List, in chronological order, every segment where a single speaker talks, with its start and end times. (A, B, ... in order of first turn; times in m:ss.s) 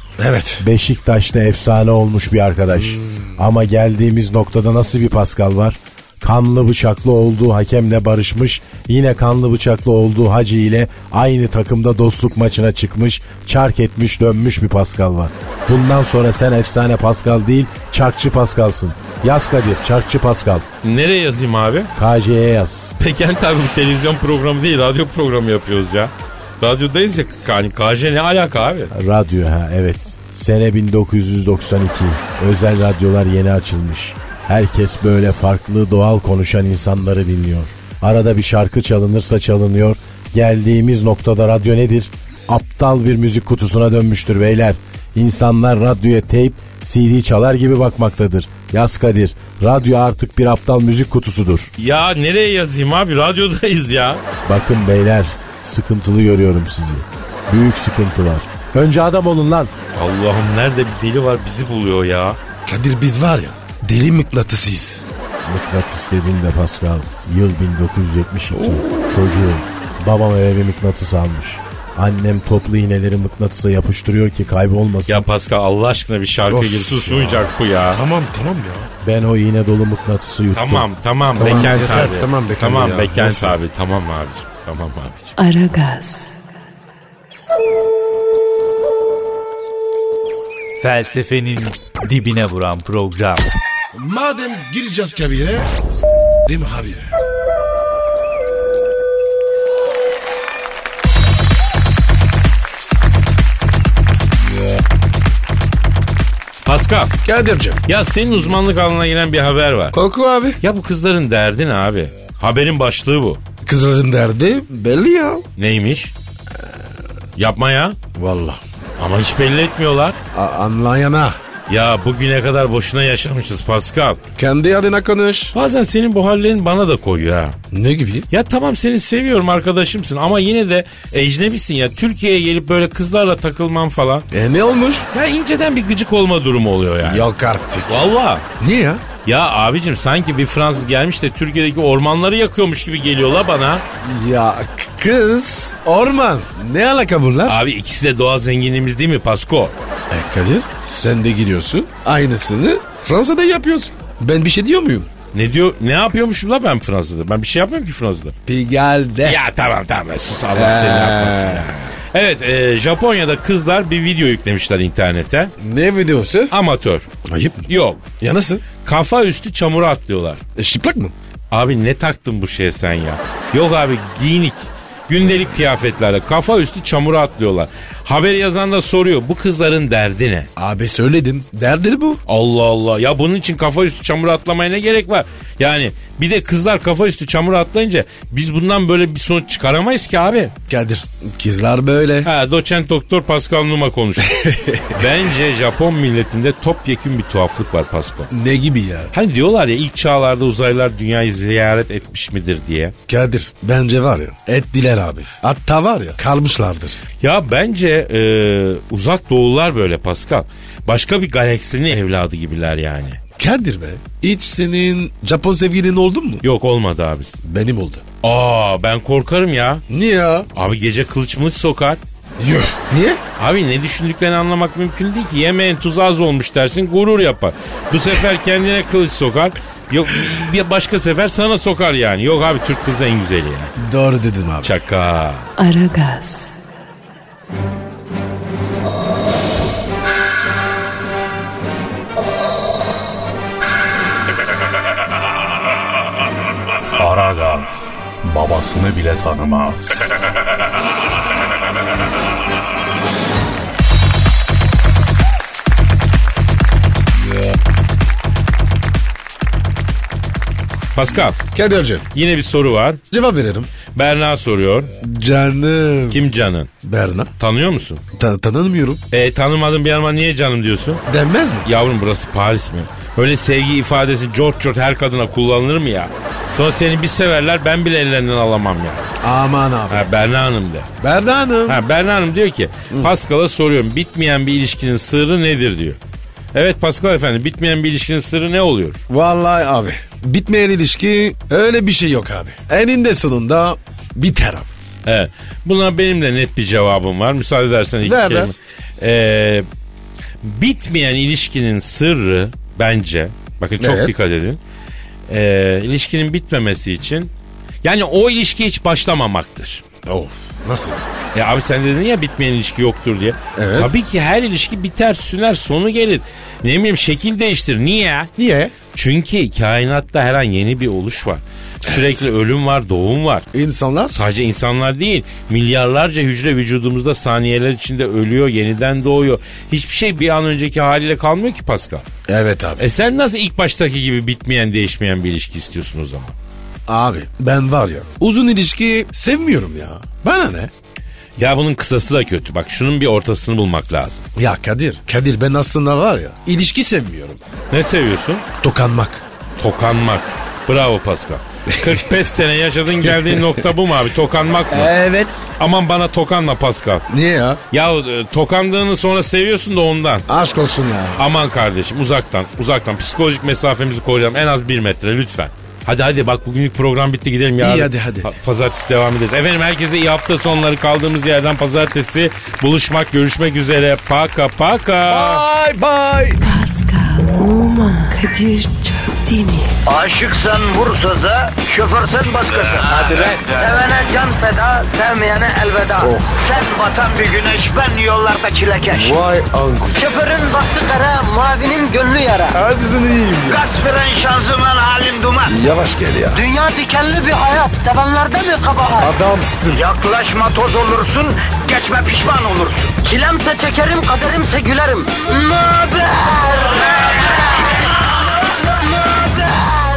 0:00.2-0:00.6 A
0:00.6-0:20.7 B
0:02.7-0:03.3 A
0:20.8-0:21.9 C
0:22.0-0:22.9 B
0:23.0-0:28.9 C
0:28.9-0:51.7 B
0:51.8-0:54.2 C
0:54.4-0:59.7 B
1:00.0-1:02.4 C
1:02.7-1:05.0 A
1:05.4-1:15.2 B
1:15.1-1:18.0 C
1:16.5-1:18.9 A
1:19.0-1:20.9 B
1:20.5-1:25.3 C
1:21.4-1:23.6 A
1:25.4-1:26.4 D
1:30.8-1:33.5 E
1:33.9-1:35.7 A
1:36.4-1:37.1 A
1:46.7-1:47.2 C
1:47.2-1:47.8 A
1:47.9-1:50.0 C
1:49.9-1:50.6 A
1:50.6-1:53.4 C
1:53.6-1:55.4 A
1:55.6-1:56.1 C
1:57.4-1:58.0 C
1:58.2-1:58.6 A
1:59.0-2:00.2 C
2:00.3-2:01.4 A
2:01.7-2:04.2 C
2:04.4-2:05.5 A
2:05.5-2:07.6 C
2:07.7-2:08.3 A
2:08.3-2:14.3 C
2:14.3-2:15.1 A
2:15.1-2:17.3 C
2:17.0-2:18.0 A
2:17.9-2:18.4 C
2:18.6-2:19.0 A
2:19.2-2:23.8 C
2:24.0-2:27.6 A
2:27.4-2:29.7 C
2:30.1-2:35.1 A
2:35.3-2:38.4 C
2:38.5-2:39.4 A
2:39.2-2:45.5 C
2:40.5-2:41.7 A
2:45.6-2:46.5 A
2:46.5-2:47.1 C
2:47.3-2:47.7 A
2:47.7-2:48.0 C
2:48.2-2:48.6 A
2:48.8-2:50.4 C
2:50.6-2:51.1 A
2:51.5-3:00.5 C
3:00.6-3:02.2 A
3:02.3-3:10.5 C
3:10.7-3:12.3 A
3:12.2-3:18.3 C
3:14.3-3:14.9 A
3:18.3-3:19.1 A
3:19.1-3:23.0 C
3:23.1-3:27.0 A
3:27.2-3:33.2 C
3:33.4-3:36.4 A
3:36.4-3:37.4 C
3:37.4-3:38.0 A
3:38.2-3:39.8 C
3:39.9-3:40.5 A
3:40.5-3:42.0 C
3:42.4-3:43.2 A
3:43.4-3:53.7 C
3:53.8-3:54.7 A
3:54.6-3:55.5 C
3:55.6-3:56.6 D
4:07.0-4:10.1 F
4:21.0-4:21.4 C
4:21.5-4:22.1 A
4:22.1-4:23.0 C
4:23.1-4:23.7 A
4:23.9-4:24.9 C
4:25.0-4:26.2 A
4:26.1-4:26.7 C
4:26.8-4:27.3 A
4:27.4-4:28.0 C
4:28.1-4:29.0 A
4:29.1-4:31.0 C
4:31.1-4:31.7 A
4:31.6-4:39.1 C
4:39.2-4:40.1 A
4:39.9-4:40.9 C
4:41.0-4:41.8 A
4:41.7-4:46.0 C
4:46.5-4:49.0 C
4:49.1-4:54.7 A
4:55.1-4:59.7 C
4:58.0-4:58.5 A
5:00.4-5:04.6 C
5:03.8-5:04.1 A
5:05.3-5:07.3 C
5:07.8-5:09.8 C
5:10.1-5:11.0 A
5:11.3-5:18.3 C
5:13.6-5:13.9 A
5:18.4-5:18.7 A
5:18.9-5:23.5 C
5:23.5-5:24.2 A
5:24.1-5:32.1 C
5:32.3-5:32.8 A
5:32.8-5:36.4 C
5:36.9-5:40.7 A
5:41.4-5:44.3 C
5:44.4-5:47.4 A
5:47.7-5:48.4 C
5:48.6-5:49.2 A
5:49.6-5:54.9 C
5:51.7-5:52.0 A
5:53.1-5:53.6 A
5:54.7-5:55.4 A
5:55.6-5:57.1 C
5:57.1-5:57.6 A
5:57.7-6:00.2 C
6:00.3-6:01.3 A
6:01.2-6:15.4 C
6:07.6-6:08.3 A
6:15.1-6:16.4 A
6:16.4-6:19.8 D
6:19.9-6:29.2 G
6:23.0-6:23.5 A
6:26.0-6:26.5 A
6:28.9-6:30.3 A
6:29.9-6:32.6 G
6:32.5-6:33.6 A
6:33.5-6:35.6 G
6:35.5-6:36.4 A
6:36.3-6:39.2 G
6:39.0-6:39.8 A
6:39.7-6:47.4 G
6:48.9-6:49.7 G